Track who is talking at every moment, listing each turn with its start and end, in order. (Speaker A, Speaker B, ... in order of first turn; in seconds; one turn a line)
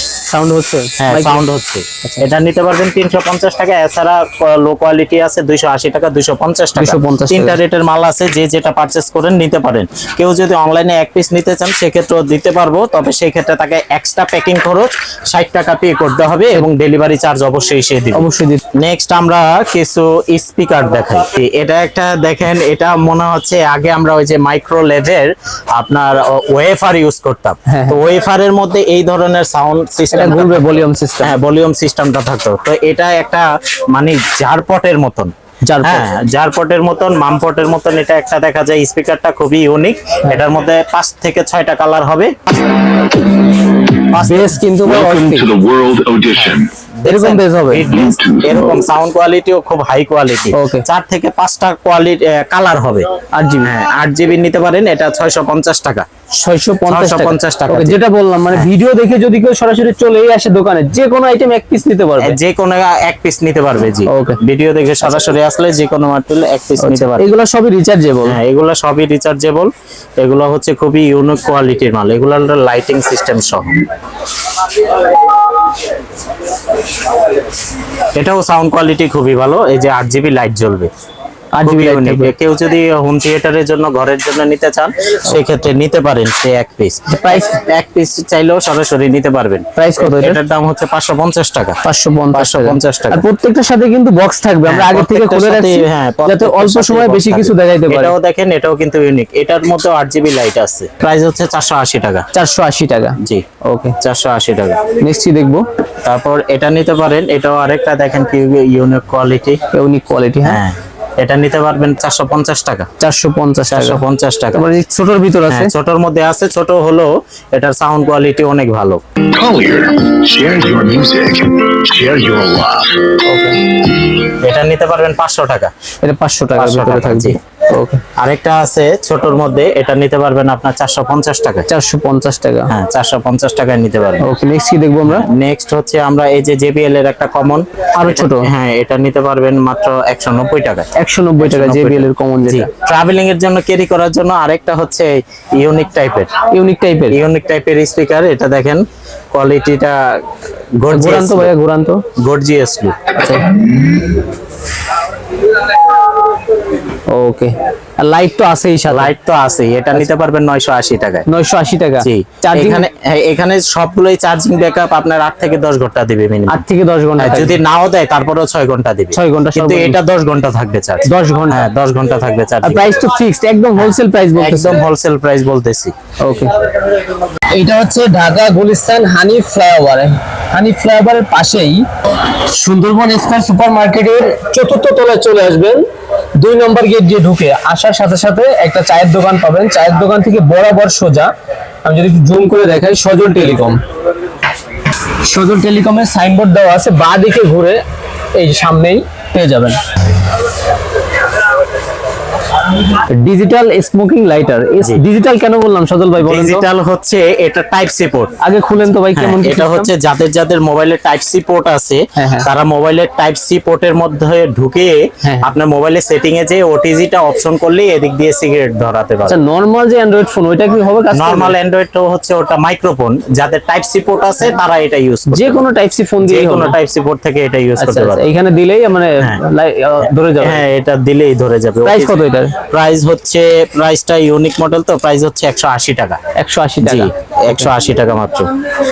Speaker A: 0.3-1.4
Speaker B: 1.0-42.7
Speaker A: 6.8-7.6
Speaker A: 18.1-18.6
Speaker A: 27.7-28.0
Speaker A: 30.1-31.4
Speaker A: 35.6-36.1
Speaker B: 44.1-44.6
Speaker A: 44.2-45.5
Speaker C: 44.8-46.7
Speaker B: 46.4-53.1
Speaker A: 47.1-47.9
Speaker C: 47.9-48.7
Speaker A: 50.5-50.8
Speaker A: 53.3-53.7
Speaker B: 53.6-56.1
Speaker A: 56.4-62.4
Speaker B: 56.9-58.0
Speaker B: 62.2-67.3
Speaker A: 64.1-64.4
Speaker A: 66.8-68.4
Speaker B: 68.2-73.8
Speaker B: 78.2-80.9
Speaker A: 81.5-82.3
Speaker B: 81.6-93.2
Speaker A: 87.1-87.6
Speaker A: 89.8-90.4
Speaker A: 91.8-98.2
Speaker B: 94.7-102.3
Speaker A: 102.3-104.0
Speaker B: 103.2-103.5
Speaker B: 104.0-104.9
Speaker A: 105.0-105.7
Speaker B: 106.0-109.6
Speaker A: 109.7-110.6
Speaker B: 110.4-112.9
Speaker A: 113.0-114.0
Speaker B: 113.7-114.7
Speaker A: 114.5-115.7
Speaker B: 115.5-119.0
Speaker C: 119.3-123.2
Speaker A: 123.2-123.7
Speaker B: 124.3-125.7
Speaker A: 126.0-128.0
Speaker B: 126.6-127.4
Speaker B: 128.2-131.7
Speaker A: 131.7-132.7
Speaker B: 132.7-134.3
Speaker A: 134.2-135.3
Speaker B: 135.1-146.4
Speaker A: 137.9-138.5
Speaker A: 140.9-142.7
Speaker A: 146.5-147.2
Speaker B: 147.1-150.2
Speaker B: 150.8-151.5
Speaker A: 150.9-152.1
Speaker B: 152.2-153.7
Speaker A: 157.1-159.1
Speaker B: 158.9-161.3
Speaker A: 161.3-162.9
Speaker B: 162.0-166.6
Speaker A: 166.5-167.6
Speaker B: 167.2-172.9
Speaker A: 169.1-170.0
Speaker A: 171.0-171.7
Speaker A: 172.6-174.8
Speaker B: 173.8-175.9
Speaker A: 176.2-176.7
Speaker A: 177.4-191.3
Speaker A: 191.8-193.8
Speaker A: 195.2-197.8
Speaker A: 198.3-199.8
Speaker A: 202.8-206.7
Speaker B: 206.2-208.3
Speaker A: 208.4-209.9
Speaker B: 209.2-219.4
Speaker A: 212.2-212.5
Speaker A: 215.2-215.5
Speaker A: 219.3-221.6
Speaker B: 221.1-225.6
Speaker A: 225.3-226.8
Speaker B: 226.2-228.2
Speaker A: 227.8-230.6
Speaker B: 230.4-236.2
Speaker A: 231.8-232.6
Speaker A: 236.3-237.7
Speaker B: 236.8-238.5